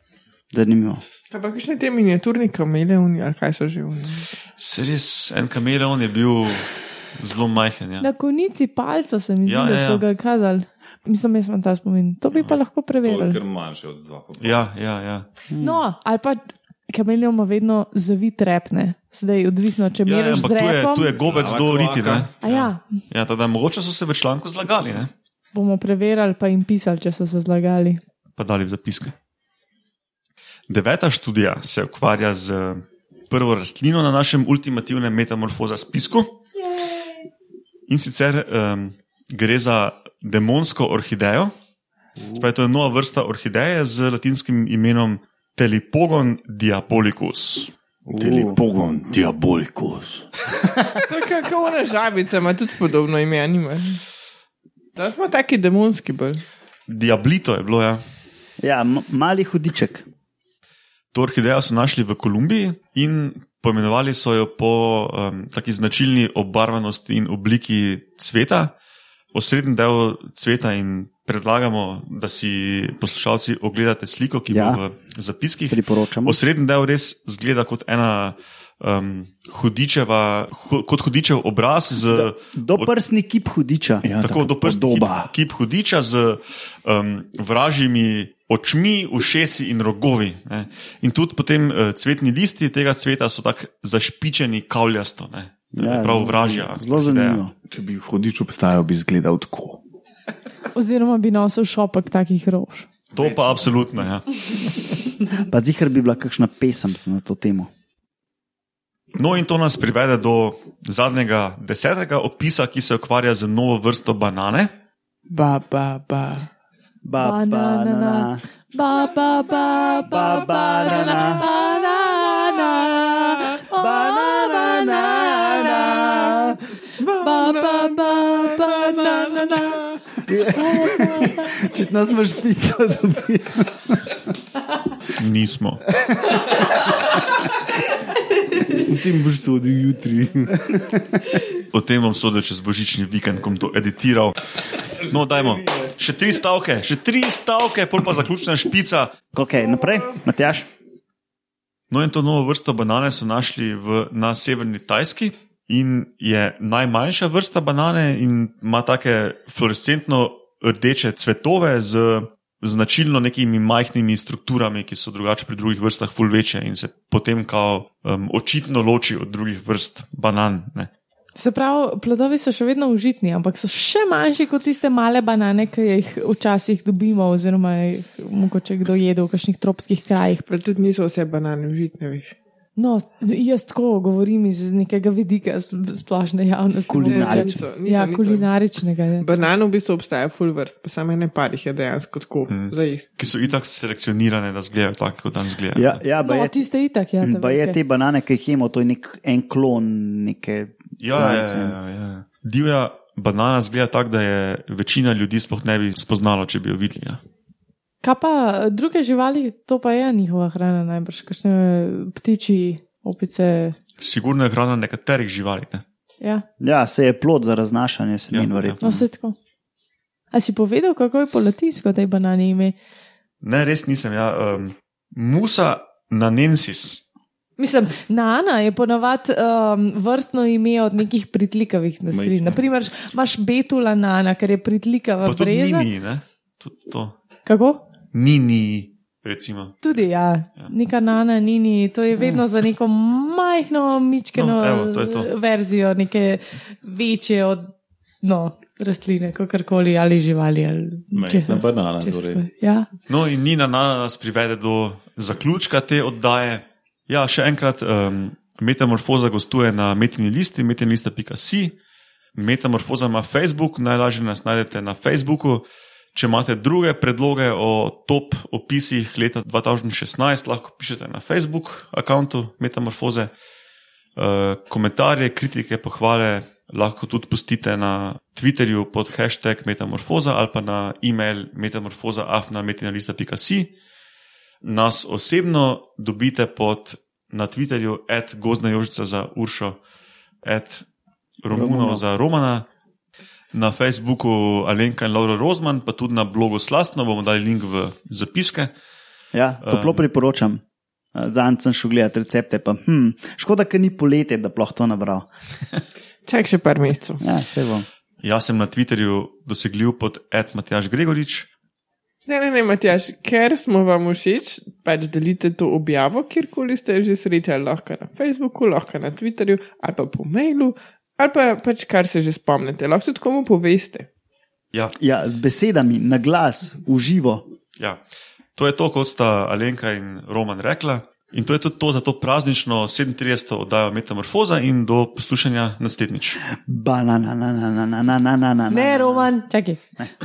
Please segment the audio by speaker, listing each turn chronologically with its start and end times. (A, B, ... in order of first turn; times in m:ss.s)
0:00.5-0:01.0 A
0:01.3-0:04.3 B
0:04.6-0:08.1 C
0:08.0-0:13.4 D
0:09.5-0:10.0 C
0:13.0-0:14.6 E
0:14.4-0:15.2 C
0:15.5-0:15.8 A
0:15.6-0:21.1 D
0:20.0-0:25.1 C
0:21.2-0:22.3 E
0:22.4-0:23.0 D
0:25.5-0:28.0 D
0:28.4-0:29.1 C
0:30.7-0:36.4 C
0:37.9-0:41.5 C
0:42.4-0:47.7 C
0:48.1-0:50.3 E
0:48.1-0:48.6 A
0:51.0-0:54.0 B
0:55.0-0:56.4 B
0:56.9-0:58.0 C
0:58.6-1:00.1 A
1:01.1-1:08.7 C
1:09.3-1:22.9 C
1:14.5-1:14.8 A
1:15.7-1:16.4 A
1:22.0-1:24.0 A
1:24.0-1:25.3 E
1:24.2-1:37.4 C
1:35.7-1:37.5 A
1:37.7-1:39.8 E
1:40.7-1:42.9 D
1:43.1-1:44.3 C
1:43.2-1:43.8 E
1:45.4-1:47.7 A
1:49.1-1:54.7 C
1:55.3-1:56.5 B
1:57.0-1:58.4 A
1:57.2-2:09.8 D
2:00.0-2:01.5 A
2:03.7-2:06.6 A
2:07.0-2:10.0 B
2:10.2-2:14.2 A
2:10.5-2:11.6 D
2:15.1-2:15.9 C
2:16.0-2:16.6 A
2:18.8-2:20.9 E
2:20.6-2:21.0 A
2:21.7-2:24.5 C
2:25.0-2:29.1 C
2:29.3-2:30.7 A
2:31.9-2:50.9 C
2:51.4-3:00.5 D
3:00.5-3:02.3 B
3:02.8-3:09.3 D
3:06.9-3:07.6 A
3:07.1-3:08.5 B
3:09.2-3:13.1 B
3:12.5-3:16.0 C
3:15.7-3:16.6 A
3:16.2-3:17.8 D
3:17.2-3:21.8 A
3:21.0-3:27.2 C
3:28.0-3:33.8 D
3:34.0-3:35.8 C
3:36.6-3:39.0 A
3:38.3-3:38.8 C
3:38.8-3:39.4 D
3:40.3-3:42.8 D
3:43.4-3:47.0 C
3:47.6-3:55.9 D
3:52.1-3:52.6 E
3:55.2-3:57.2 C
3:57.4-3:57.8 D
3:58.1-4:00.1 C
3:59.8-4:12.9 D
4:04.4-4:05.3 C
4:11.1-4:12.4 E
4:13.1-4:21.8 C
4:22.4-4:33.3 C
4:34.2-4:43.7 C
4:44.6-4:49.8 C
4:50.4-4:50.9 C
4:51.4-4:52.7 C
4:51.5-4:52.0 A
4:53.5-4:58.7 C
4:59.3-5:00.6 A
4:59.6-5:00.0 C
5:01.1-5:05.3 A
5:06.2-5:07.2 B
5:07.2-5:07.9 A
5:08.2-5:11.5 C
5:12.3-5:24.1 B
5:25.0-5:27.5 A
5:28.6-5:36.4 C
5:36.5-5:39.3 A
5:38.7-5:39.8 D